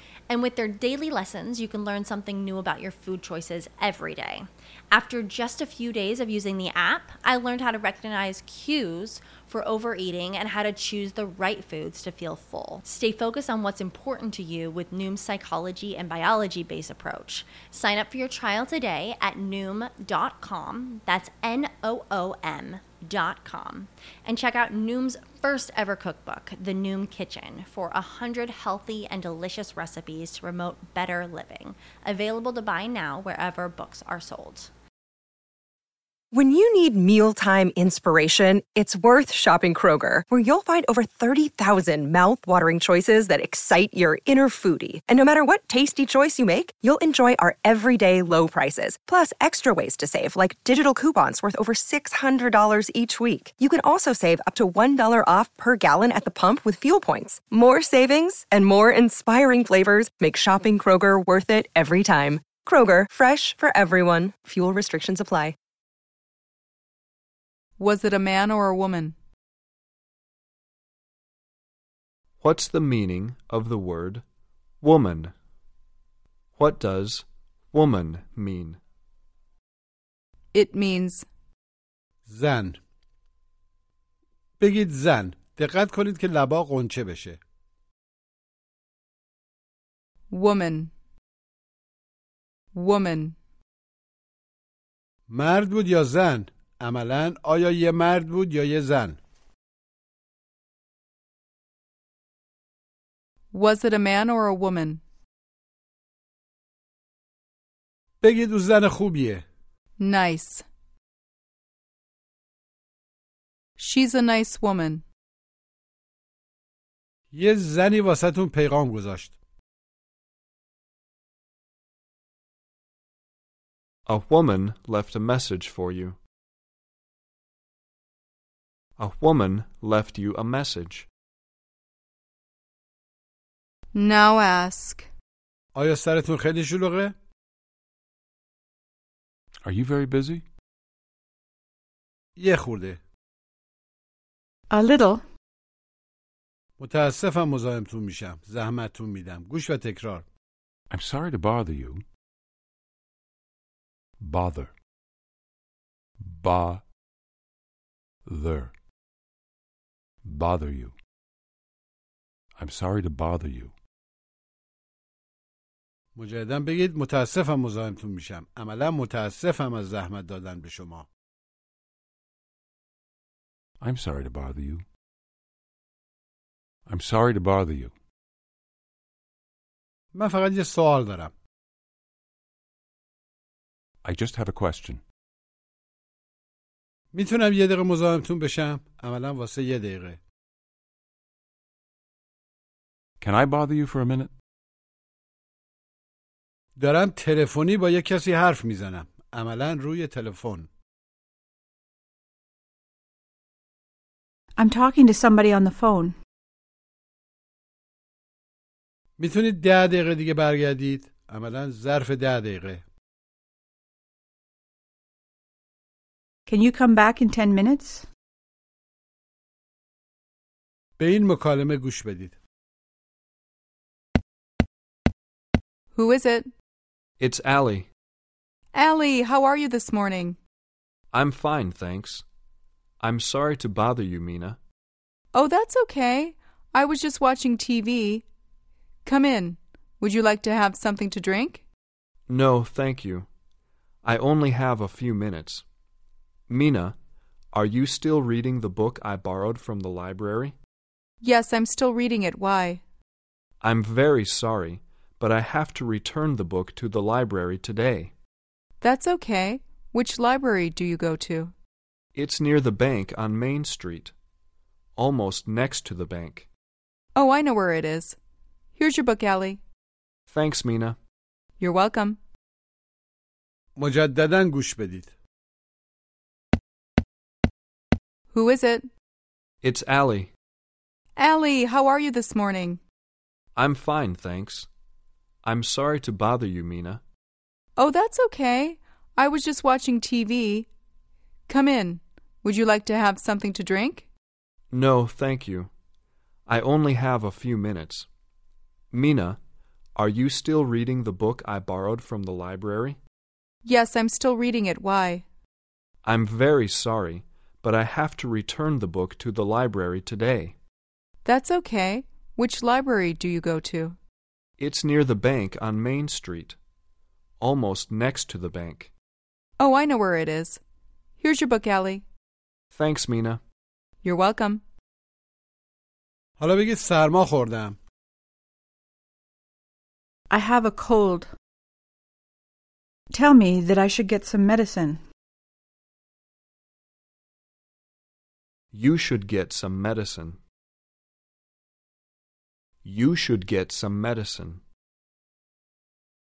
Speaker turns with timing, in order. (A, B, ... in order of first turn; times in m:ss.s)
0:00.3-0:34.7 A
0:36.3-1:05.6 B
1:07.8-1:09.2 C
1:12.4-1:14.2 D
1:14.8-1:15.3 D
1:16.6-1:18.8 D
1:20.5-1:21.3 C
1:22.3-1:22.8 E
1:24.6-1:27.4 E
1:30.3-1:30.9 C
1:32.7-1:33.4 C
1:35.3-1:39.2 E
1:43.5-1:45.0 C
1:48.2-1:49.4 E
1:50.0-1:50.6 C
1:53.8-1:55.0 C
1:57.3-1:59.4 E
2:04.1-2:06.2 D
2:09.0-2:11.1 D
2:13.9-2:15.1 C
2:15.8-2:17.1 E
2:19.6-2:20.4 F
2:22.4-2:23.0 E
2:24.7-2:25.2 G
2:26.8-2:30.2 E
2:30.9-2:32.0 F
2:34.2-2:34.7 F
2:36.2-2:36.8 F
2:38.3-2:38.7 F
2:40.2-2:40.9 F
2:42.6-2:43.7 F
2:46.2-2:51.1 E
2:53.8-2:54.8 F
2:56.9-2:57.9 F
3:00.1-3:01.3 E
3:04.0-3:05.0 F
3:07.1-3:10.2 E
3:13.2-3:14.3 F
3:16.8-3:20.7 E
3:24.6-3:26.2 G
3:29.2-3:32.8 E
3:36.5-3:38.1 G
3:41.0-3:42.4 E
3:45.9-3:46.5 C
3:47.2-3:47.9 D
3:48.7-3:50.4 C
3:51.1-3:52.2 D
3:53.0-3:54.6 D
3:55.3-3:58.2 C
3:59.0-4:01.6 C
4:02.3-4:03.3 D
4:04.0-4:05.6 D
4:06.5-4:07.0 D
4:07.5-4:10.6 D
4:11.2-4:12.8 C
4:13.6-4:18.1 D
4:18.8-4:21.5 C
4:22.2-4:24.1 D
4:25.0-4:26.5 D
4:27.2-4:28.2 C
4:28.8-4:29.6 C
4:30.3-4:31.0 D
4:31.6-4:32.2 C
4:33.8-4:35.1 E
4:38.3-4:38.9 C
4:39.6-4:40.3 D
4:41.2-4:42.8 C
4:43.6-4:44.7 D
4:45.4-4:47.0 D
4:47.8-4:50.7 C
4:51.5-4:54.1 C
4:54.7-4:55.7 D
4:56.5-4:58.1 D
4:58.9-4:59.4 D
5:00.0-5:03.0 D
5:03.6-5:05.2 C
5:06.0-5:10.6 D
5:11.2-5:14.0 C
5:14.6-5:16.6 D
5:17.4-5:18.9 D
5:19.6-5:20.6 C
5:21.2-5:22.0 C
5:22.7-5:23.4 D
5:24.0-5:24.6 C
5:26.4-5:27.8 E
5:30.3-5:31.3 G
5:33.1-5:35.0 G
5:38.7-5:40.4 D
5:42.8-5:44.6 D